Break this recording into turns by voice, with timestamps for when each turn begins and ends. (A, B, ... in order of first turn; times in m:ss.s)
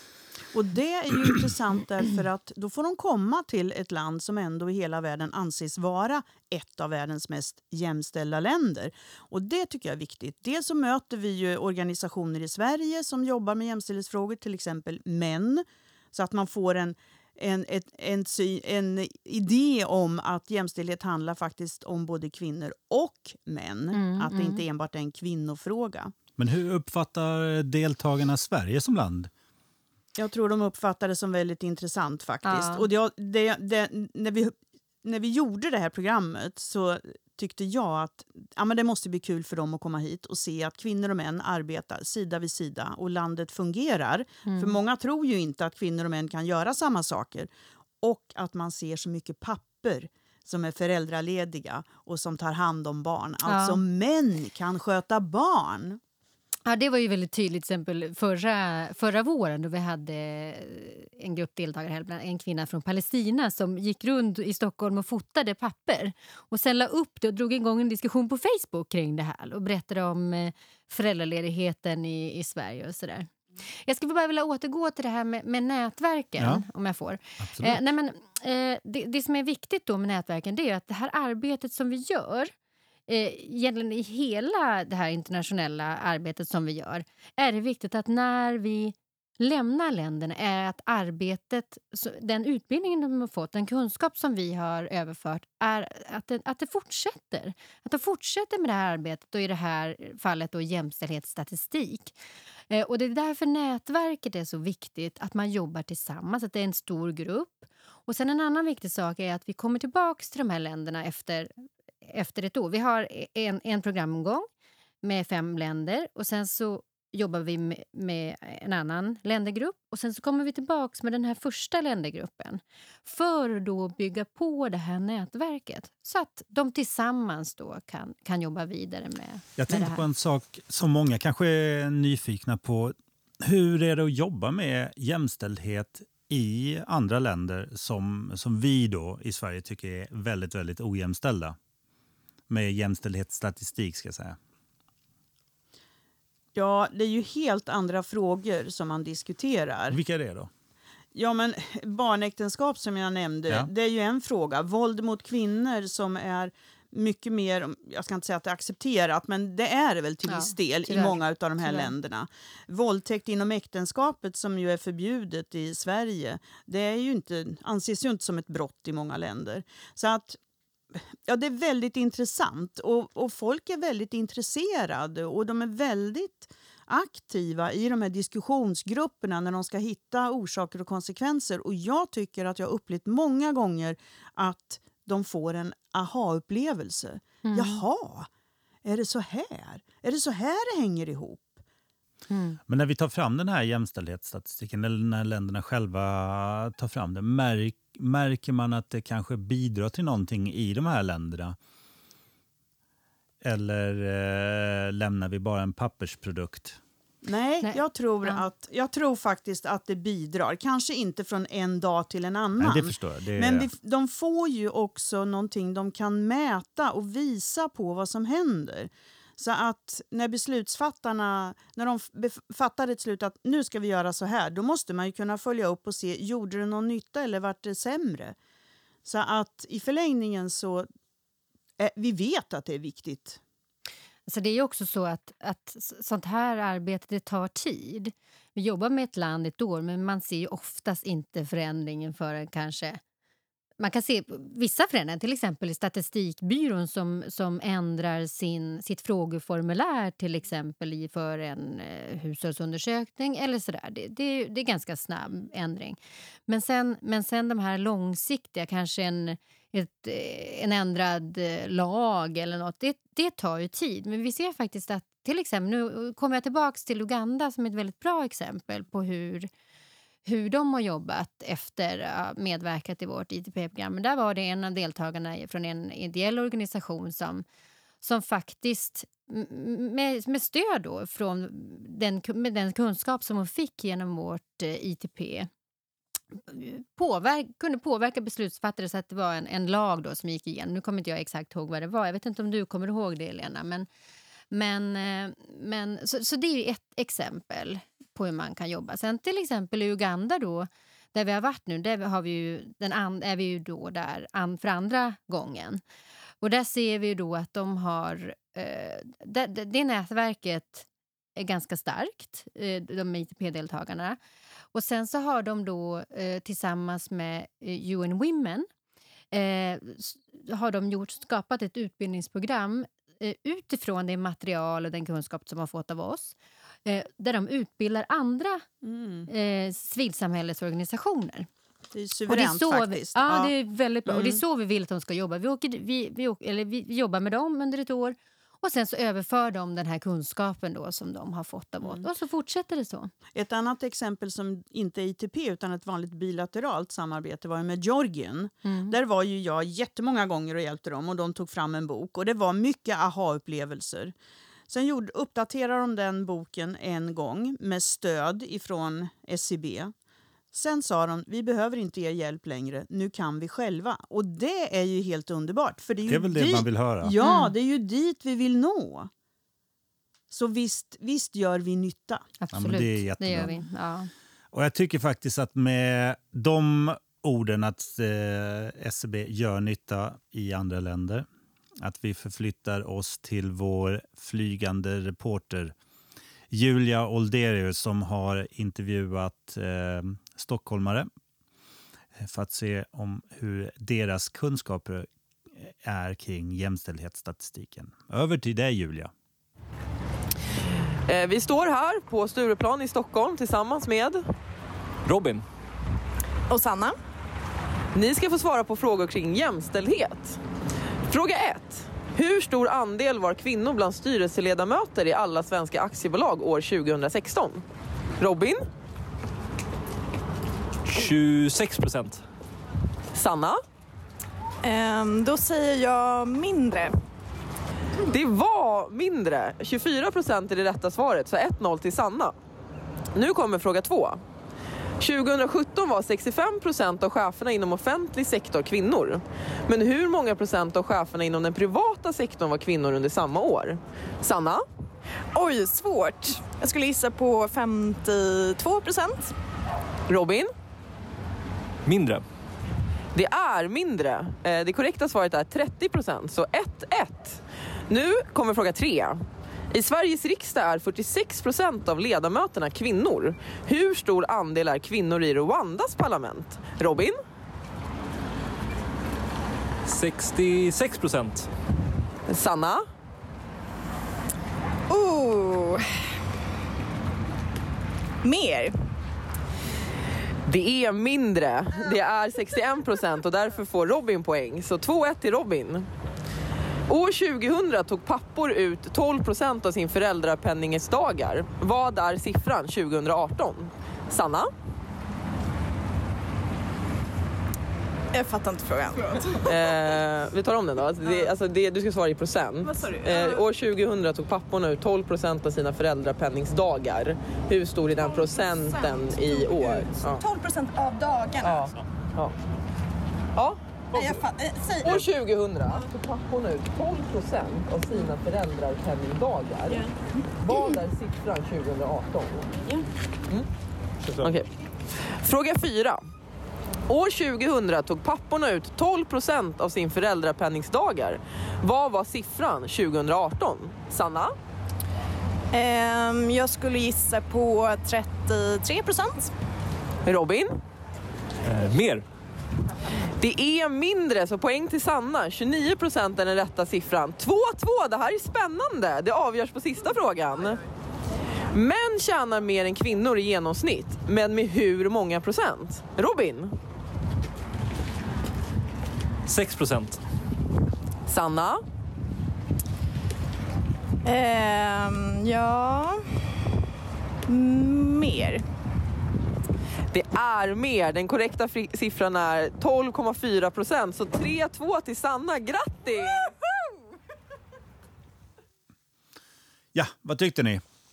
0:00.5-0:26.1 A
0:23.9-0:24.6 B
0:26.4-0:29.3 C
0:30.2-0:47.5 A
0:32.4-0:32.9 B
0:44.5-0:44.8 B
0:48.0-0:56.0 A
0:53.5-0:53.8 B
0:56.7-1:13.3 B
1:13.8-1:22.5 B
1:16.4-1:16.6 C
1:17.4-1:17.8 C
1:23.1-1:42.1 B
1:42.7-1:54.5 B
1:55.0-2:10.0 B
2:09.6-2:21.6 C
2:22.5-2:24.4 C
2:26.6-2:30.0 A
2:29.9-2:30.5 C
2:31.2-2:50.4 A
2:40.3-2:41.9 B
2:50.9-3:08.3 A
3:07.4-3:07.8 B
3:08.8-3:11.6 A
3:12.3-3:12.6 B
3:12.7-3:21.6 C
3:23.4-3:26.8 C
3:27.2-3:48.4 A
3:27.6-3:28.4 B
3:32.6-3:33.7 C
3:49.0-3:50.9 A
3:51.8-3:53.4 A
3:54.3-4:03.0 B
4:03.8-4:29.5 B
4:30.3-4:37.4 B
4:38.0-4:45.5 B
4:46.5-4:53.9 B
4:54.5-5:05.8 B
5:06.4-5:14.2 B
5:14.7-5:18.7 B
5:19.3-5:28.7 B
5:28.8-5:29.3 A
5:29.3-5:31.5 B
5:31.9-5:33.5 A
5:32.3-5:43.1 B
5:34.1-5:34.4 A
5:43.3-5:54.1 A
5:48.7-5:49.0 B
5:54.7-5:59.9 A
6:00.5-6:09.1 A
6:06.1-6:07.1 C
6:07.2-6:07.5 B
6:10.3-6:12.3 A
6:12.4-6:14.1 B
6:12.5-6:13.6 C
6:14.5-6:21.3 C
6:21.8-6:25.8 C
6:26.5-6:31.1 C
6:32.2-6:39.1 C
6:41.1-6:44.2 D
6:45.1-6:45.5 E
6:46.5-6:47.0 F
6:48.0-6:50.4 D
6:51.1-6:57.6 D
6:58.2-6:58.6 D
7:00.8-7:02.2 E
7:03.1-7:03.6 D
7:04.6-7:07.0 F
7:08.0-7:12.4 D
7:13.1-7:14.2 D
7:15.0-7:24.6 D
7:25.3-7:29.4 F
7:30.1-7:30.5 D
7:31.9-7:32.2 E
7:33.2-7:47.2 D
7:49.9-7:51.5 E
7:52.3-7:52.8 D
7:54.9-7:56.1 F
7:58.2-7:58.8 F
8:00.5-8:05.9 D
8:06.9-8:14.5 D
8:18.1-8:19.7 F
8:19.4-8:30.2 D
8:22.7-8:23.4 F
8:28.3-8:31.8 F
8:31.4-8:32.3 D
8:33.4-8:34.1 D
8:33.9-8:35.1 F
8:34.8-8:39.9 D
8:40.4-8:42.5 D
8:40.5-8:40.8 F
8:44.0-8:44.3 E
8:44.2-8:44.5 D
8:45.0-8:46.0 D
8:46.9-8:54.3 D
8:55.5-8:59.3 F
9:00.0-9:00.6 D
9:01.4-9:02.0 E
9:03.2-9:10.6 D
9:11.5-9:16.5 D
9:19.3-9:20.0 E
9:21.1-9:21.6 D
9:24.0-9:26.2 F
9:27.3-9:28.4 F
9:29.9-9:36.3 D
9:39.7-9:40.6 C